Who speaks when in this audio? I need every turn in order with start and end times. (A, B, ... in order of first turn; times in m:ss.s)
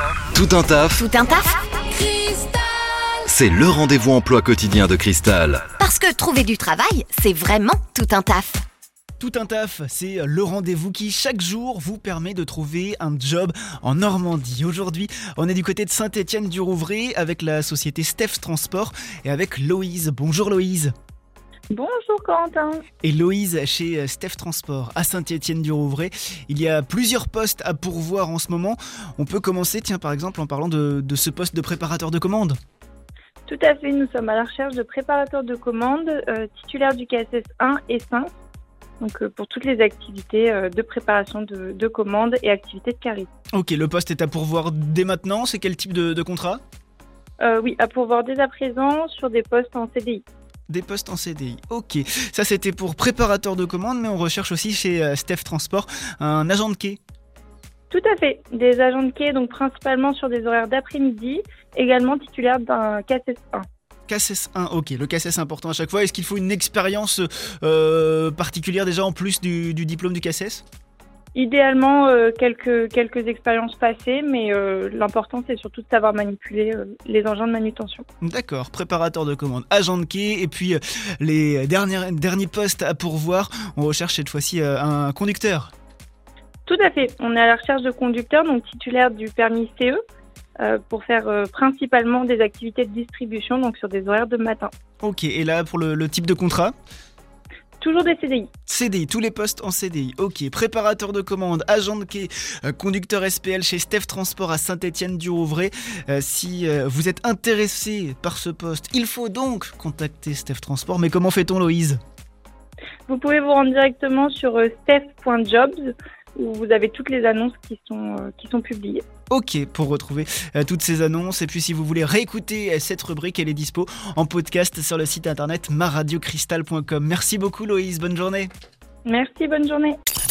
0:00.2-0:01.0 A
0:00.9-0:01.6 B
0:03.2-0:05.7 A
0:05.8-0:08.6 B
0:09.2-0:20.9 C
0:21.7-0:22.8 D
0:23.0-0:32.6 C
0:33.4-0:38.3 D
0:39.0-0:43.3 D
0:43.5-0:46.6 C
0:47.4-0:50.2 D
0:50.7-0:57.0 C
0:57.9-1:03.6 D
1:04.1-1:10.6 C
1:11.3-1:18.0 D
1:18.2-1:25.7 C
1:26.6-1:30.0 D
1:30.6-1:34.7 D
1:35.0-1:36.7 C
1:37.8-1:38.5 D
1:38.7-1:52.0 C
1:53.1-1:59.0 D
1:59.3-2:08.5 C
2:09.0-2:10.0 D